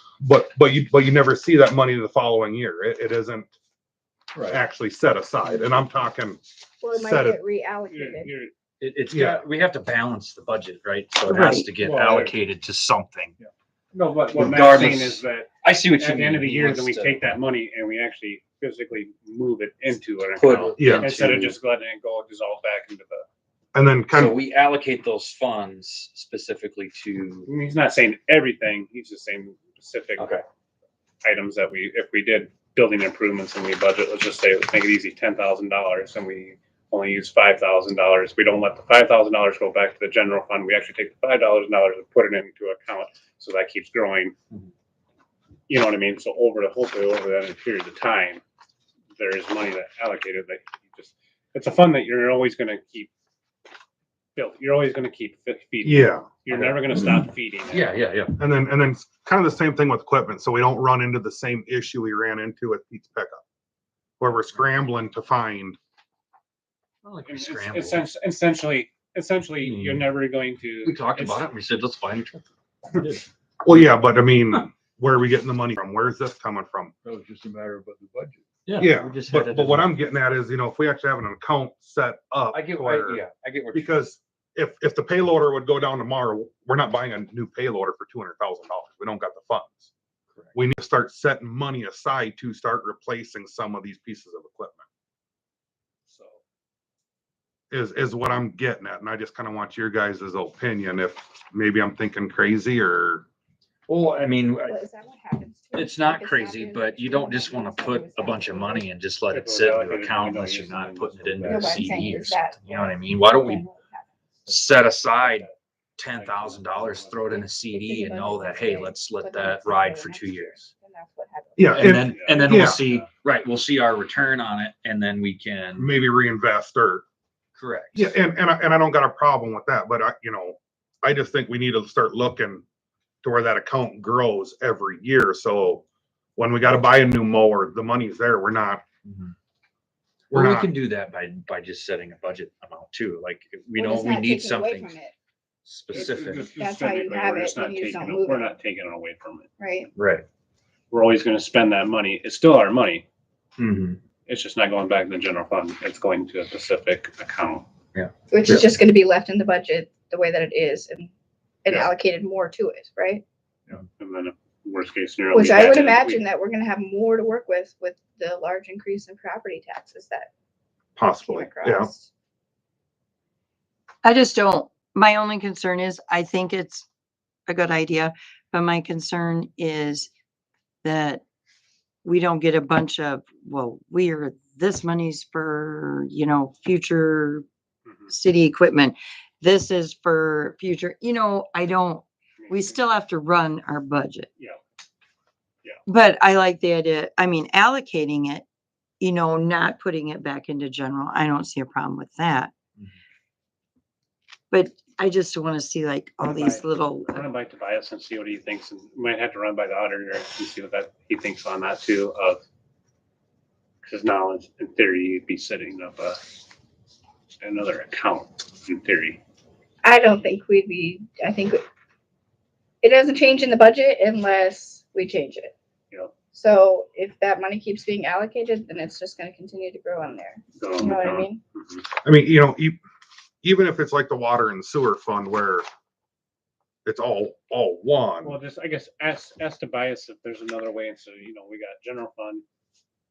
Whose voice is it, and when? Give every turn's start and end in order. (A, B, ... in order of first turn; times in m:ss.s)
0:00.2-0:03.5 A
0:04.3-0:04.6 B
0:04.5-0:07.4 A
0:06.8-0:08.3 C
0:07.9-0:08.5 D
0:08.8-0:13.3 E
0:09.1-0:09.4 A
0:11.3-0:11.7 F
0:11.8-0:12.4 D
0:13.9-0:23.2 D
0:14.4-0:17.3 E
0:20.4-0:21.6 E
0:20.8-0:21.1 A
0:23.7-0:24.3 A
0:24.1-0:27.5 E
0:27.5-0:30.4 D
0:30.2-0:30.4 E
0:31.2-0:44.3 D
0:45.7-0:48.4 D
0:49.2-0:53.1 D
0:54.4-0:57.9 D
0:55.8-0:56.3 A
0:56.5-0:57.0 E
0:57.7-0:58.4 E
0:58.4-1:03.4 A
1:04.2-1:05.8 A
1:07.0-1:08.1 E
1:07.2-1:11.5 D
1:09.6-1:10.1 E
1:10.8-1:12.5 E
1:13.6-1:16.9 A
1:17.0-1:18.7 B
1:18.6-1:19.9 E
1:18.8-1:23.2 A
1:22.5-1:23.9 E
1:23.7-1:29.9 A
1:30.5-1:34.8 A
1:37.7-1:43.2 A
1:43.9-1:44.8 E
1:44.6-1:48.9 C
1:45.7-1:53.7 E
1:49.3-1:51.8 D
1:51.4-1:54.0 C
1:54.5-2:00.7 E
1:55.2-1:55.5 D
1:56.1-1:57.3 D
1:57.2-2:01.9 C
2:01.6-2:02.8 A
2:01.7-2:05.9 E
2:02.0-2:03.1 D
2:05.8-2:07.0 A
2:07.6-2:08.1 E
2:07.9-2:12.6 A
2:13.2-2:15.8 A
2:16.4-2:18.8 A
2:19.0-2:19.3 E
2:20.3-2:25.0 E
2:20.3-2:20.7 A
2:23.7-2:25.1 C
2:25.6-2:26.5 E
2:25.9-2:29.5 D
2:26.6-2:28.5 C
2:29.6-2:29.9 C
2:30.0-2:30.2 E
2:30.9-2:33.0 D
2:33.6-2:34.0 E
2:34.2-2:37.7 D
2:37.9-2:38.7 E
2:38.3-2:41.1 C
2:41.6-2:43.2 C
2:44.0-2:46.2 D
2:45.3-2:50.3 C
2:51.0-2:51.9 A
2:51.2-2:52.1 C
2:54.0-2:56.8 F
2:57.5-3:00.1 F
3:00.8-3:01.2 F
3:02.0-3:07.4 F
3:07.8-3:08.1 D
3:08.1-3:14.3 F
3:12.4-3:12.8 D
3:15.9-3:18.4 F
3:19.0-3:22.5 F
3:24.5-3:27.3 F
3:26.2-3:32.4 D
3:33.8-3:36.2 D
3:37.4-3:39.2 D
3:39.8-3:41.6 C
3:42.8-3:45.5 C
3:46.3-3:51.4 C
3:50.6-3:51.9 D
3:52.0-3:52.8 A
3:53.4-3:55.6 A
3:56.8-3:58.4 A
3:58.2-4:02.4 D